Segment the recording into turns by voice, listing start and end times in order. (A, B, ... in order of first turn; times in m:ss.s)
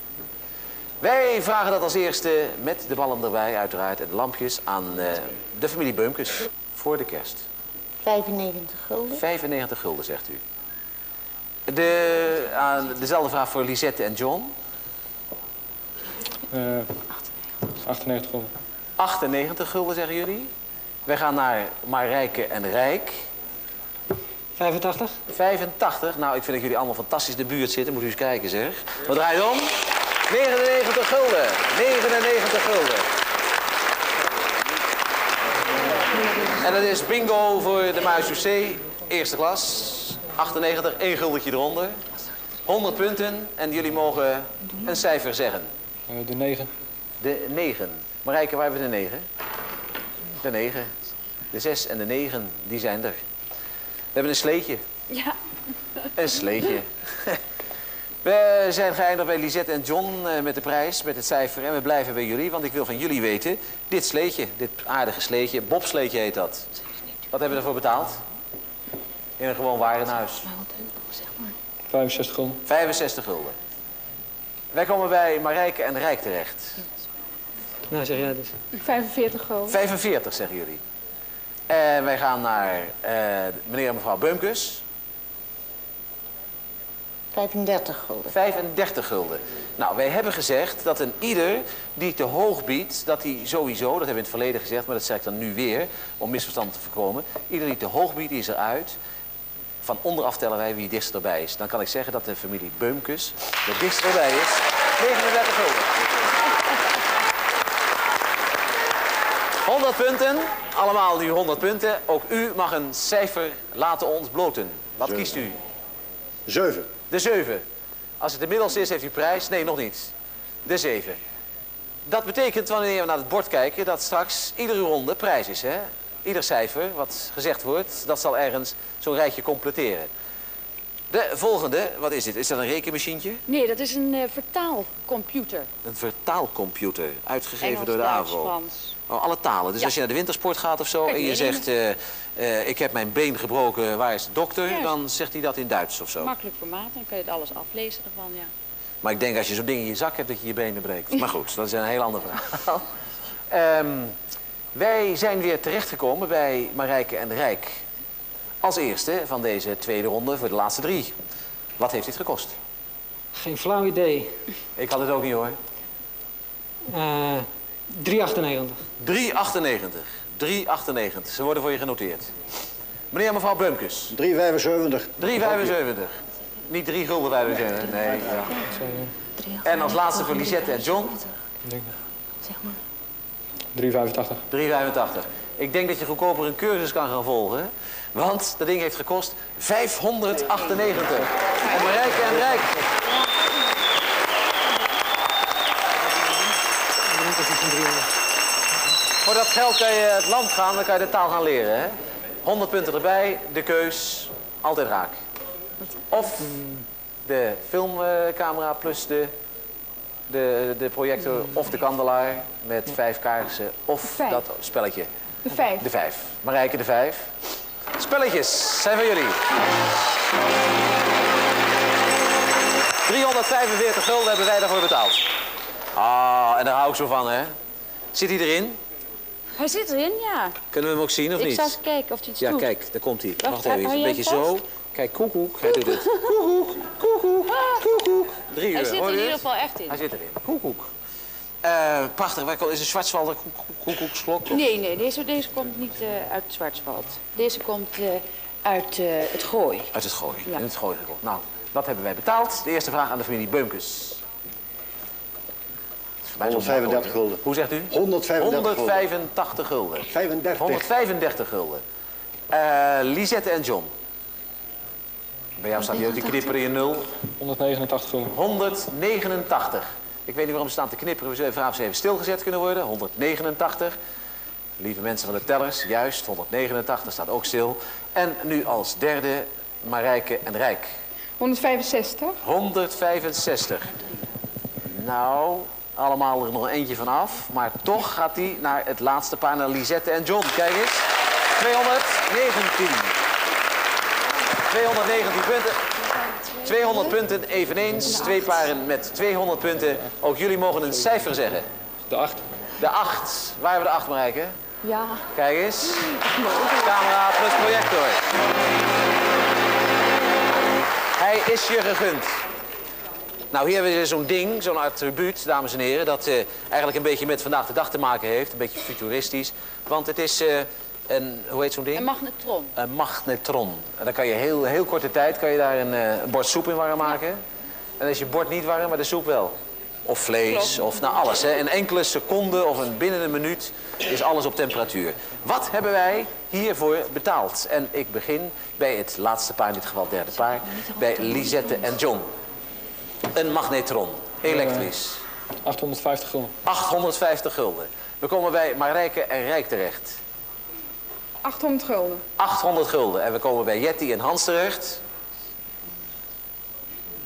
0:01.0-0:07.4 A
0:08.0-0:09.2 B
0:09.2-0:10.4 A
0:11.7-0:14.5 A
0:16.5-0:16.9 C
0:17.8-0:18.5 C
0:19.0-0:20.5 A
0:21.1-0:23.2 A
0:24.6-0:25.2 D
0:25.3-0:29.8 A
0:30.3-0:33.1 A
0:36.6-0:42.0 A
0:42.6-0:45.7 A
0:46.1-0:46.7 C
0:47.2-0:49.2 A
0:50.4-0:50.9 A
0:51.5-0:53.2 A
0:54.1-0:54.8 A
0:56.1-0:57.4 A
0:58.2-1:06.7 A
1:07.3-1:08.2 A
1:09.4-1:10.5 A
1:11.9-1:12.6 C
1:12.6-1:13.5 A
1:14.7-1:16.8 A
1:17.9-1:18.5 D
1:18.8-1:19.8 E
1:19.7-1:20.8 A
1:21.7-1:24.8 A
1:27.3-1:28.3 B
1:28.3-1:39.0 A
1:39.8-1:46.0 A
1:49.6-1:55.6 A
1:55.0-1:55.4 F
1:56.4-1:56.9 F
1:57.1-1:57.6 A
1:58.2-2:00.1 A
2:00.6-2:01.2 A
2:02.1-2:10.1 A
2:11.1-2:13.4 A
2:13.5-2:15.7 G
2:15.8-2:18.6 A
2:17.6-2:19.0 G
2:19.1-2:26.3 A
2:21.0-2:21.6 G
2:24.7-2:25.0 G
2:26.2-2:28.5 G
2:29.0-2:32.8 A
2:33.5-2:34.2 A
2:34.7-2:37.8 A
2:38.6-2:41.1 A
2:41.8-2:42.6 A
2:43.3-2:44.4 D
2:44.8-2:45.6 A
2:46.9-2:48.8 D
2:49.0-2:52.3 A
2:53.1-2:54.2 A
2:54.1-2:55.7 F
2:55.2-2:56.2 A
2:56.7-2:58.6 A
2:58.7-2:59.1 C
2:59.6-3:01.2 A
3:01.6-3:01.9 C
3:03.7-3:04.4 C
3:04.5-3:12.8 A
3:17.1-3:18.1 D
3:19.2-3:21.9 A
3:22.4-3:25.2 A
3:26.1-3:26.5 A
3:26.4-3:26.8 D
3:27.2-3:29.3 A
3:30.3-3:35.1 A
3:35.4-3:35.8 E
3:35.8-3:37.3 A
3:38.0-3:39.4 A
3:43.0-3:45.2 A
3:45.9-3:47.5 A
3:48.1-3:48.8 A
3:49.6-3:50.6 G
3:50.7-3:51.8 A
3:51.3-3:52.7 G
3:52.4-4:00.9 A
3:53.4-3:54.6 G
3:57.5-3:57.8 G
3:58.7-4:00.0 G
4:01.6-4:04.6 A
4:04.5-4:09.9 G
4:09.9-4:14.2 A
4:16.3-4:21.8 A
4:16.4-4:19.0 F
4:20.1-4:20.9 F
4:22.5-4:23.9 A
4:25.6-4:27.1 A
4:27.4-4:28.3 C
4:28.3-4:34.0 A
4:34.8-4:40.9 A
4:41.4-4:42.4 E
4:42.4-4:43.9 A
4:44.9-4:53.2 A
4:54.7-4:55.8 A
4:56.6-5:01.7 A
5:02.1-5:02.4 C
5:02.8-5:04.5 A
5:05.3-5:06.1 A
5:06.8-5:08.2 A
5:11.2-5:12.4 A
5:13.5-5:22.1 A
5:21.9-5:22.7 G
5:22.7-5:27.4 A
5:28.0-5:42.3 A
5:30.5-5:31.2 G
5:43.3-5:45.2 A
5:44.4-5:44.9 C
5:45.6-5:46.5 C
5:46.6-5:50.2 A
5:51.4-5:52.2 E
5:52.4-5:55.0 A